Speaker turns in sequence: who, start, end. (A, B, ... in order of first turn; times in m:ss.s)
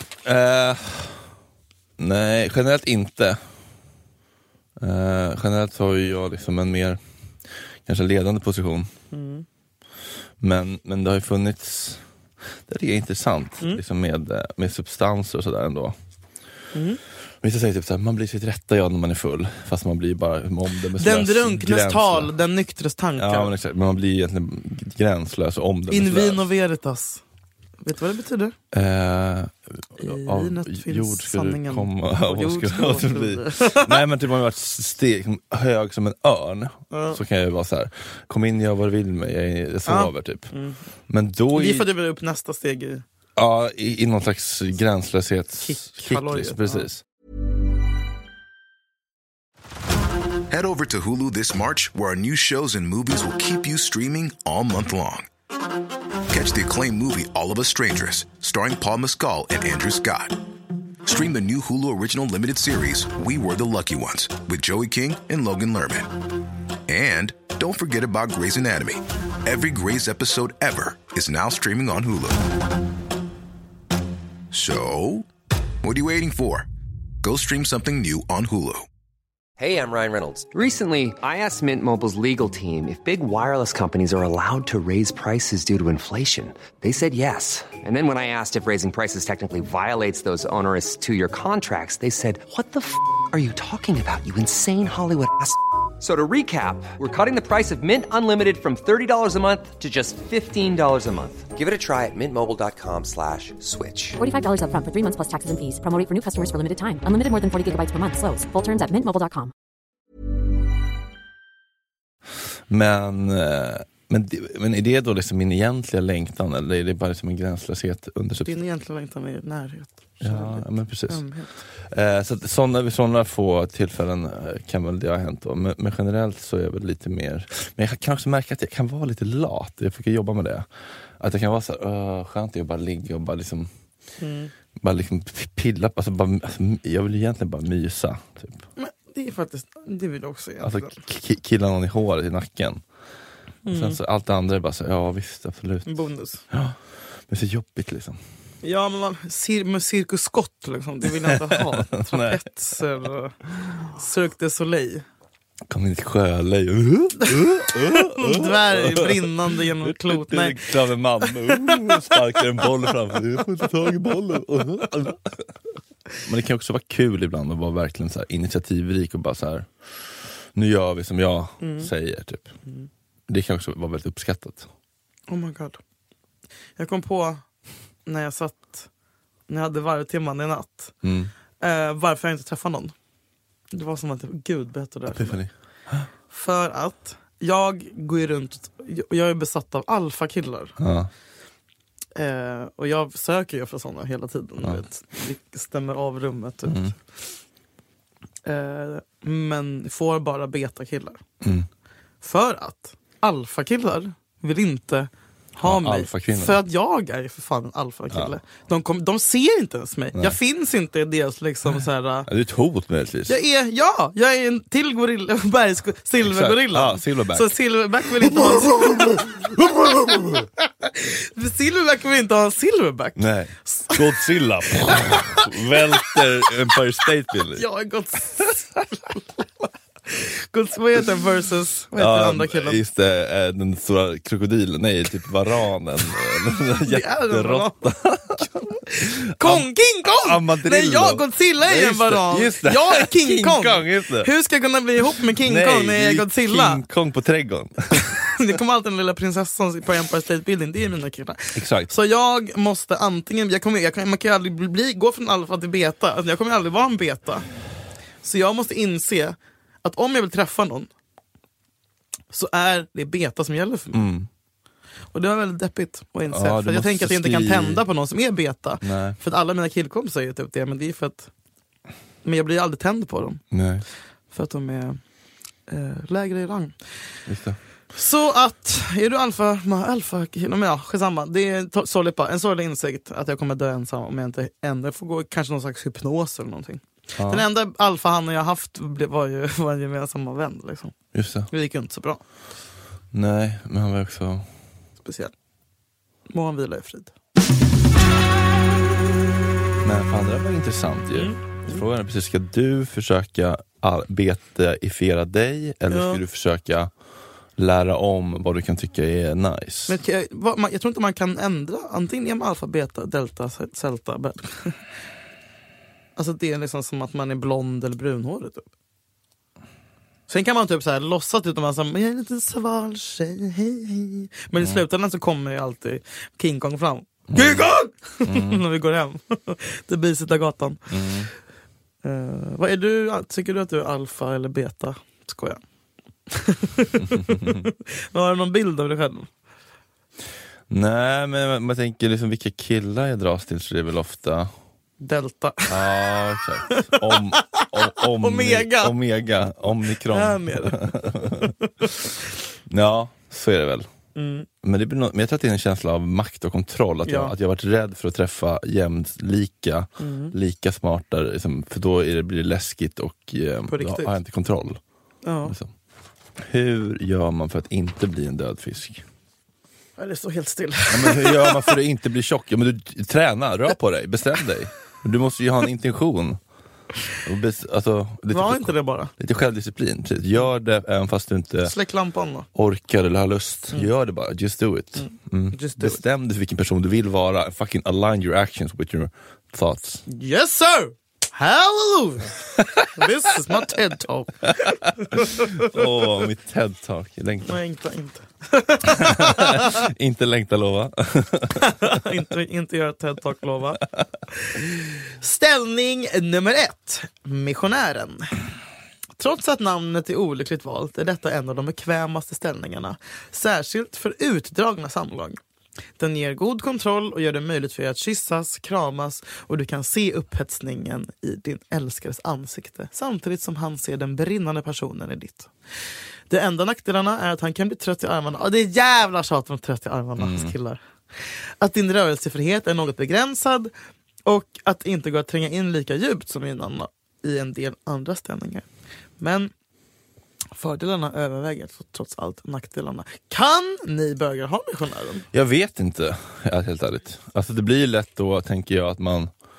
0:00.2-0:01.2 A
0:02.0-0:03.4 A
0:04.8-0:07.0 A
0:07.8-0:08.9 A
0:09.1-0:09.4 B
0:10.4-0:12.0 A
0:12.6-0:16.0 A
0:16.7-0:17.0 B
0:17.4-0:22.3 A
0:21.0-0:23.5 B
0:23.2-0:26.5 A
0:25.9-0:27.2 B
0:27.8-0:28.5 B
0:28.7-0:40.5 A
0:30.0-0:34.0 B
0:36.9-0:37.2 B
0:39.9-0:40.8 B
0:41.1-0:41.9 A
0:41.5-0:43.0 B
0:43.4-0:47.0 A
0:45.6-0:46.9 B
0:50.5-0:55.3 C
0:56.3-1:00.4 C
1:01.0-1:06.1 C
1:06.9-1:12.4 C
1:14.5-1:15.3 C
1:15.8-1:16.7 C
1:17.2-1:18.9 C
1:19.6-1:44.2 D
1:44.2-1:49.5 E
1:52.7-1:58.6 A
1:58.4-2:01.6 B
2:00.2-2:10.7 A
2:11.2-2:13.7 A
2:14.2-2:14.5 B
2:14.8-2:18.6 A
2:18.8-2:21.0 B
2:20.6-2:22.8 A
2:23.6-2:24.0 B
2:23.7-2:28.2 A
2:25.8-2:26.4 B
2:28.6-2:35.0 B
2:31.2-2:32.4 A
2:35.7-2:45.4 A
2:37.2-2:40.6 B
2:41.2-2:42.2 B
2:46.2-2:52.5 A
2:51.6-2:51.9 B
2:53.3-2:54.7 A
2:55.3-2:55.8 B
2:56.8-2:57.4 B
2:58.0-2:58.9 B
2:59.5-3:00.9 B
3:01.0-3:01.3 A
3:01.6-3:02.9 B
3:03.7-3:05.4 B
3:05.1-3:06.1 A
3:06.3-3:10.8 B
3:10.8-3:11.1 A
3:12.2-3:17.2 B
3:16.7-3:16.9 A
3:18.4-3:21.2 B
3:21.4-3:21.7 A
3:22.2-3:32.3 B
3:25.6-3:26.6 A
3:32.3-3:33.4 A
3:33.3-3:39.4 B
3:36.2-3:37.5 A
3:38.2-3:40.4 A
3:40.8-3:44.3 B
3:43.2-3:47.6 A
3:44.8-3:46.2 B
3:47.5-3:49.4 B
3:50.1-3:52.8 B
3:51.9-3:58.5 A
3:56.8-3:57.8 B
3:58.4-4:06.8 B
3:59.0-3:59.7 A
4:00.2-4:04.3 A
4:05.1-4:08.2 A
4:08.0-4:17.5 B
4:11.5-4:11.9 A
4:18.2-4:20.9 B
4:22.3-4:24.1 B
4:23.9-4:24.3 A
4:25.1-4:31.3 B
4:26.3-4:27.8 A
4:28.8-4:29.2 A
4:32.2-4:33.4 B
4:33.5-4:33.8 A
4:34.3-4:35.0 B
4:35.7-4:37.2 B
4:37.3-4:37.6 A
4:37.9-4:51.0 B
4:47.2-4:47.4 A
4:51.1-4:51.5 A
4:51.5-4:52.2 B
4:53.1-4:54.5 A
4:55.0-4:55.3 B
4:56.3-4:57.1 B
4:59.8-5:06.9 A
5:01.1-5:01.8 B
5:05.9-5:06.2 B
5:07.6-5:10.0 A
5:09.9-5:14.8 B
5:16.2-5:18.7 B
5:20.3-5:31.0 B
5:27.3-5:27.6 A
5:28.2-5:28.6 A
5:30.9-5:31.3 A
5:32.0-5:35.6 B
5:36.3-5:39.3 B
5:37.3-5:37.6 A
5:40.7-5:44.5 A
5:45.0-5:45.9 B
5:45.7-5:51.5 A
5:46.7-5:48.9 B
5:50.1-5:51.9 B
5:52.7-5:53.9 A
5:54.1-5:54.5 B
5:54.6-6:04.8 A
5:57.0-5:57.3 B
6:00.0-6:00.3 B
6:03.7-6:04.2 B
6:05.2-6:05.6 B
6:05.4-6:05.7 A
6:06.4-6:09.0 A
6:10.0-6:11.7 B
6:10.9-6:16.4 A
6:17.2-6:21.7 A
6:18.3-6:19.1 B
6:21.6-6:22.5 B
6:22.5-6:30.0 A
6:25.0-6:26.0 B
6:30.0-6:36.0 B
6:34.6-6:37.6 A
6:37.4-6:39.8 B
6:38.9-6:42.0 A
6:41.6-6:43.8 B
6:44.3-6:48.4 B
6:49.2-6:55.4 B
6:56.0-7:05.5 B
7:06.3-7:13.7 B
7:10.2-7:10.5 A
7:14.2-7:18.7 B
7:19.2-7:19.5 B
7:20.6-7:25.3 B
7:25.3-7:29.3 A